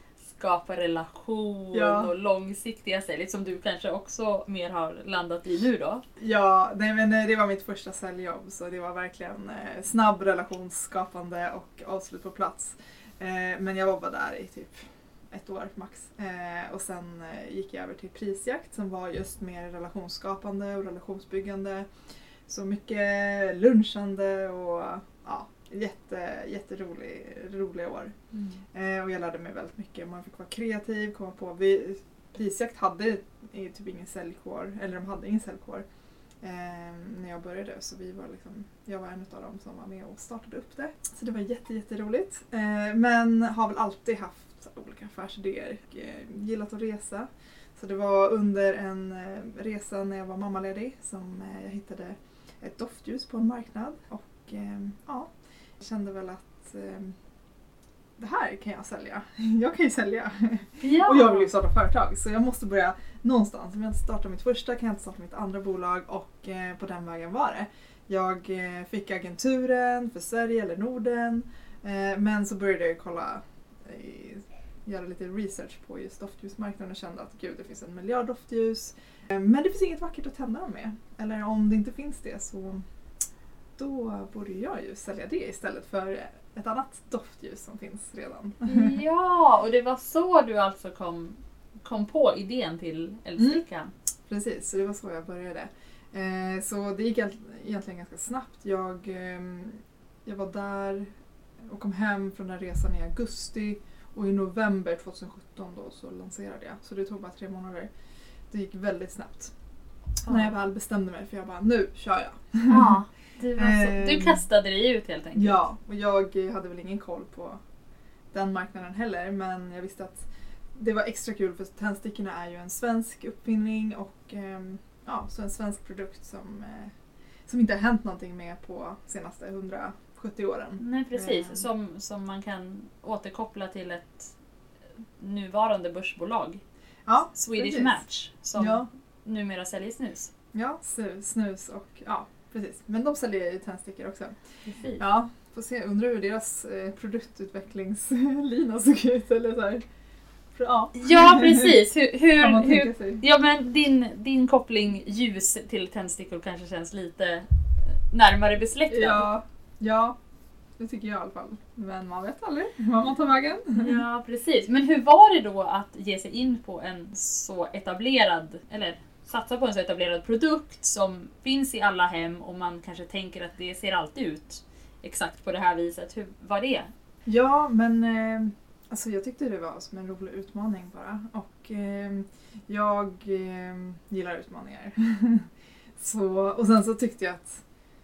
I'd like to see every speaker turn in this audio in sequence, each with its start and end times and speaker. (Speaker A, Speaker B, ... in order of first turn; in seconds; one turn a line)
Speaker A: 0.2-6.0
Speaker B: 1.7-2.1
Speaker B: 6.2-21.9
Speaker B: 22.5-28.2
Speaker B: 28.7-35.8
Speaker B: 36.4-57.1
Speaker B: 58.2-82.8
Speaker A: 60.8-61.5
Speaker B: 83.8-89.0
Speaker A: 88.7-93.9
Speaker B: 94.3-101.1
Speaker B: 101.7-107.9
Speaker B: 108.5-109.5
Speaker A: 110.2-110.5
Speaker B: 110.3-113.0
Speaker A: 112.7-115.6
Speaker B: 113.6-114.4
Speaker B: 115.4-117.6
Speaker B: 118.3-126.9
Speaker B: 127.5-131.7
Speaker A: 130.8-134.3
Speaker A: 135.2-136.6
Speaker B: 137.1-138.0
Speaker A: 137.3-140.3
Speaker B: 138.6-138.9
Speaker B: 140.5-144.4
Speaker A: 144.7-145.0
Speaker B: 145.0-149.8
Speaker B: 150.6-151.7
Speaker A: 150.9-159.3
Speaker B: 152.4-153.2
Speaker B: 158.9-160.2
Speaker B: 160.8-164.0
Speaker A: 163.8-176.9
Speaker B: 177.3-187.6